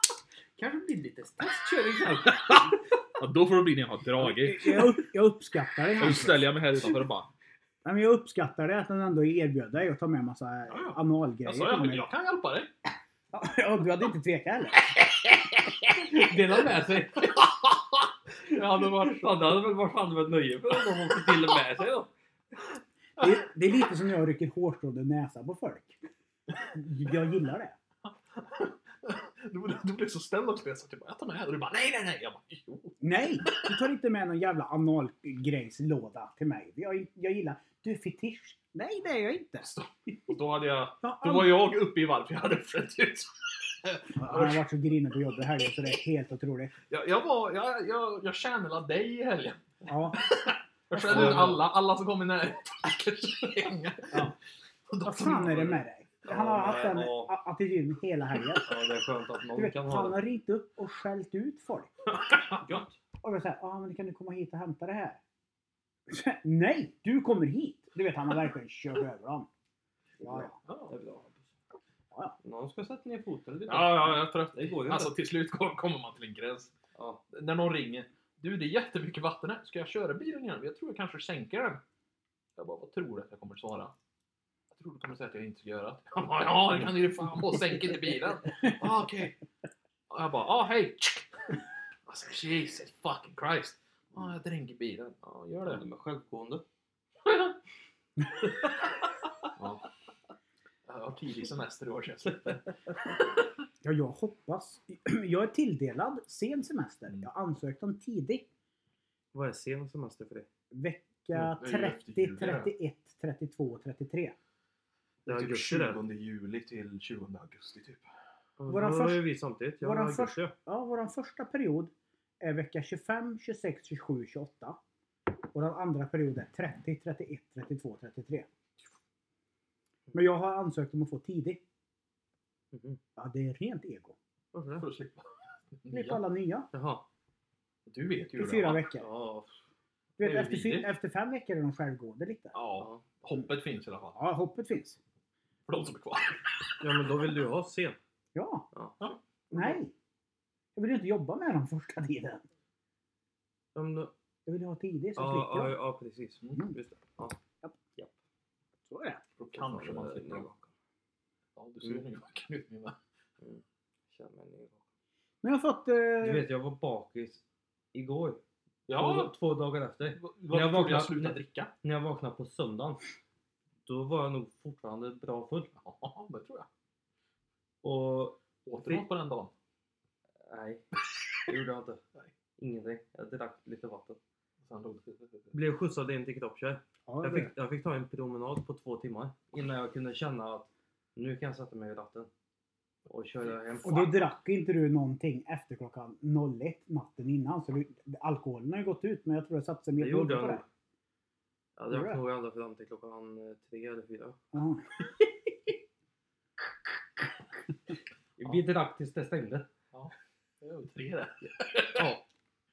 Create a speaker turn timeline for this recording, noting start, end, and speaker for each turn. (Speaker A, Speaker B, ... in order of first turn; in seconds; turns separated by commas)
Speaker A: 0.6-2.7, Speaker B: 2.2-4.9, Speaker C: 4.2-6.5, Speaker B: 6.0-7.3, Speaker C: 7.8-12.1, Speaker B: 10.7-12.7, Speaker C: 13.3-14.9, Speaker B: 15.0-15.3, Speaker A: 15.9-17.4, Speaker B: 17.2-17.8, Speaker B: 18.5-19.4, Speaker A: 18.5-22.1, Speaker C: 23.2-26.0, Speaker C: 26.6-27.8, Speaker B: 28.3-33.0, Speaker C: 33.0-39.7, Speaker B: 39.6-44.6, Speaker C: 41.0-41.6, Speaker C: 44.1-46.7, Speaker B: 46.9-54.3, Speaker C: 49.9-50.2, Speaker C: 50.9-51.5, Speaker A: 51.0-51.6, Speaker B: 54.9-55.8, Speaker C: 55.0-58.7, Speaker A: 56.3-57.3, Speaker A: 58.6-60.2, Speaker C: 59.5-61.9, Speaker B: 62.1-62.6, Speaker A: 62.6-63.0, Speaker C: 63.2-65.2, Speaker C: 66.1-69.5, Speaker A: 70.2-71.5, Speaker C: 70.2-70.5, Speaker B: 70.7-70.9, Speaker A: 72.4-75.1, Speaker B: 73.7-76.7, Speaker A: 76.9-77.2, Speaker B: 77.3-81.8, Speaker B: 82.5-83.9, Speaker B: 84.7-89.3, Speaker B: 90.1-95.8, Speaker A: 95.7-96.6, Speaker B: 97.2-97.5, Speaker B: 99.5-99.8, Speaker B: 100.9-102.6, Speaker C: 103.8-108.5, Speaker A: 109.3-110.5, Speaker C: 110.7-114.3, Speaker B: 111.3-112.7, Speaker A: 115.2-116.0, Speaker B: 115.3-118.1, Speaker A: 118.6-120.5, Speaker C: 118.7-119.2, Speaker C: 119.8-124.8, Speaker C: 125.5-128.5, Speaker C: 130.1-131.6, Speaker A: 132.7-133.0, Speaker C: 133.2-134.2, Speaker A: 134.5-134.9, Speaker B: 134.8-136.2, Speaker C: 135.9-136.7, Speaker A: 136.7-137.0, Speaker B: 137.8-138.8, Speaker C: 138.3-139.1, Speaker A: 138.9-139.5, Speaker C: 140.2-142.6, Speaker B: 140.2-140.9, Speaker A: 140.2-140.5, Speaker B: 142.5-144.2, Speaker A: 142.8-143.1, Speaker C: 144.2-145.0, Speaker B: 145.7-146.5, Speaker A: 146.8-148.0, Speaker C: 148.3-148.7, Speaker A: 148.7-149.8, Speaker C: 149.5-149.9, Speaker C: 150.8-152.4, Speaker A: 153.7-154.1, Speaker C: 154.4-155.8, Speaker A: 155.2-157.4, Speaker C: 158.9-159.2, Speaker B: 159.4-160.5, Speaker A: 159.5-160.7, Speaker B: 161.6-162.9, Speaker A: 163.4-164.8, Speaker C: 165.4-166.5, Speaker A: 166.2-167.4, Speaker A: 167.9-173.0, Speaker B: 168.9-169.3, Speaker B: 170.2-171.7, Speaker A: 173.8-175.7, Speaker B: 175.8-176.7, Speaker A: 177.8-179.1, Speaker B: 178.6-179.5, Speaker A: 180.4-182.0, Speaker A: 182.6-184.2, Speaker B: 184.6-185.5, Speaker A: 185.5-192.3, Speaker C: 187.1-187.5, Speaker A: 193.1-194.2, Speaker C: 193.8-200.6, Speaker A: 199.9-200.6, Speaker A: 201.8-204.4, Speaker C: 201.9-202.2, Speaker C: 204.5-204.9, Speaker A: 208.4-209.7, Speaker B: 209.9-212.2, Speaker A: 211.9-212.2